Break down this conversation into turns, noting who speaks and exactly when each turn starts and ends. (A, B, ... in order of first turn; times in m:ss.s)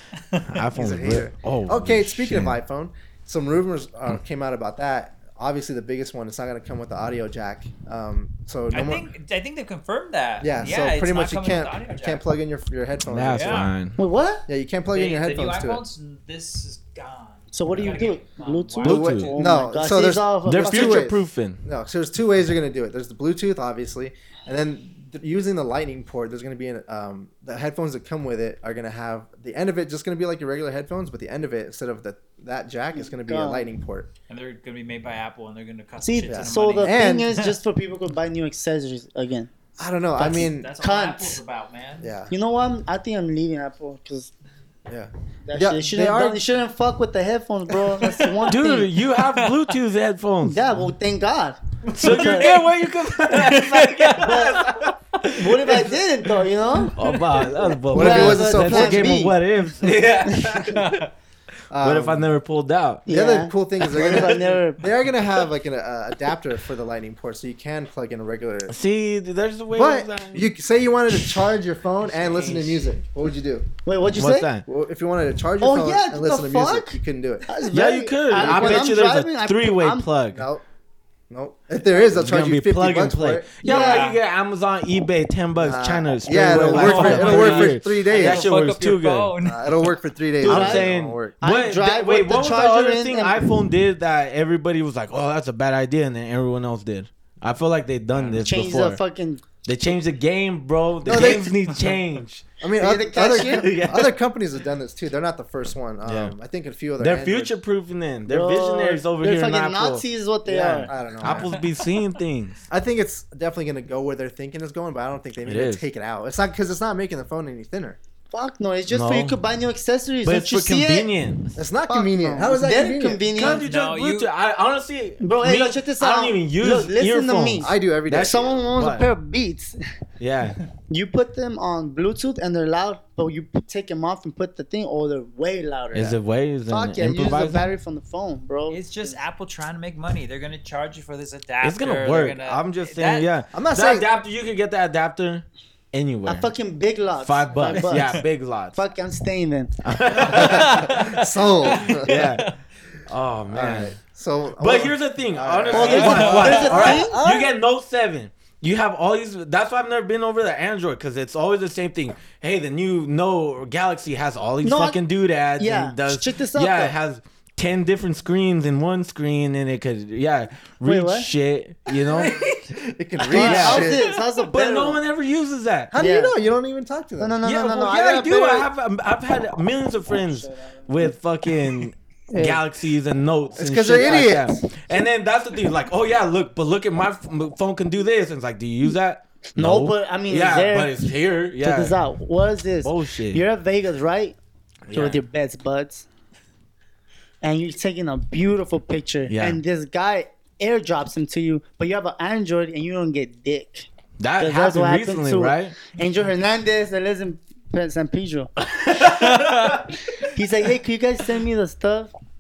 0:00.3-0:00.6 A
0:00.5-0:02.6 B
0:00.7-0:09.1 C
0:08.7-0:12.2 A
0:10.4-0:13.7 C
0:13.1-0:14.0 B
0:13.3-0:13.7 A
0:14.0-0:14.5 D
0:14.5-0:15.8 C
0:14.9-0:19.4 A
0:17.5-0:21.1 D
0:18.8-0:19.3 B
0:18.8-0:34.1 C
0:20.5-0:21.6 B
0:32.9-0:33.7 D
0:34.3-0:37.2 A
0:36.0-0:39.5 D
0:36.3-0:37.5 C
0:39.8-0:40.7 C
0:40.2-0:42.1 A
0:40.2-0:41.4 D
0:42.0-0:42.3 C
0:42.3-0:44.3 D
0:44.9-0:46.4 C
0:45.5-0:48.9 D
0:48.0-0:48.5 A
0:48.5-0:50.7 B
0:49.2-0:49.8 A
0:50.4-0:52.5 D
0:51.9-0:52.6 A
0:51.9-0:55.9 B
0:53.3-0:54.6 A
0:54.2-0:54.8 D
0:55.3-0:57.0 D
0:57.0-1:01.0 B
0:57.0-0:57.6 A
0:57.9-0:59.2 C
0:57.9-0:59.4 D
1:00.3-1:00.6 D
1:00.7-1:01.1 A
1:01.7-1:02.3 C
1:01.8-1:03.1 B
1:03.1-1:04.8 D
1:03.1-1:08.8 C
1:03.9-1:04.6 B
1:08.7-1:10.5 B
1:09.7-1:13.7 C
1:12.2-1:12.8 B
1:13.8-1:14.5 D
1:14.1-1:14.6 B
1:14.7-1:17.7 C
1:15.6-1:20.1 D
1:17.7-1:20.5 B
1:18.3-1:18.9 C
1:20.3-1:20.6 C
1:21.3-1:23.8 C
1:22.1-1:29.3 B
1:23.6-1:24.2 D
1:23.6-1:24.2 A
1:25.6-1:28.5 C
1:26.5-1:29.9 A
1:29.4-1:31.3 C
1:30.4-1:33.6 D
1:30.5-1:39.0 B
1:38.1-1:38.5 A
1:38.4-1:39.4 D
1:39.6-1:42.5 B
1:41.0-1:41.5 C
1:42.6-1:47.6 C
1:42.7-1:43.6 D
1:43.3-1:44.1 B
1:46.1-1:46.3 B
1:47.0-1:52.6 B
1:48.3-1:50.9 D
1:50.5-1:51.5 C
1:51.3-1:52.2 A
1:52.7-1:58.0 C
1:55.4-1:55.8 B
1:58.3-2:01.1 D
1:58.9-1:59.4 B
2:00.2-2:01.5 B
2:01.6-2:03.3 C
2:01.9-2:03.6 D
2:03.3-2:09.1 B
2:03.4-2:04.3 A
2:05.2-2:09.8 D
2:07.6-2:08.6 C
2:10.2-2:10.6 B
2:10.9-2:16.2 D
2:15.9-2:17.7 B
2:16.7-2:19.2 D
2:18.7-2:23.3 A
2:21.6-2:26.5 B
2:23.5-2:24.1 C
2:26.2-2:29.7 D
2:27.2-2:28.8 B
2:27.7-2:28.2 A
2:29.8-2:31.1 B
2:30.2-2:32.6 A
2:30.3-2:32.3 C
2:32.0-2:32.5 B
2:33.1-2:34.0 B
2:33.5-2:37.0 C
2:34.6-2:52.4 B
2:35.7-2:37.5 D
2:35.8-2:37.1 A
2:44.6-2:45.0 D
2:45.6-2:47.0 D
2:50.8-2:51.3 D
2:51.9-2:52.7 A
2:52.7-2:54.0 C
2:53.3-2:55.0 D
2:53.3-2:55.9 B
2:53.4-2:54.2 A
2:55.9-2:57.4 C
2:56.0-2:56.3 D
2:57.2-2:58.7 D
2:57.4-3:12.0 B
3:00.1-3:01.1 D
3:02.3-3:02.6 D
3:03.6-3:04.6 C
3:04.1-3:04.3 D
3:09.5-3:11.0 D
3:11.6-3:14.4 D
3:12.8-3:13.4 B
3:14.9-3:15.2 B
3:14.9-3:16.1 D
3:17.4-3:23.9 D
3:19.3-3:19.6 B
3:24.2-3:25.8 B
3:24.4-3:28.5 D
3:28.6-3:29.9 B
3:28.9-3:29.9 A
3:30.3-3:32.1 D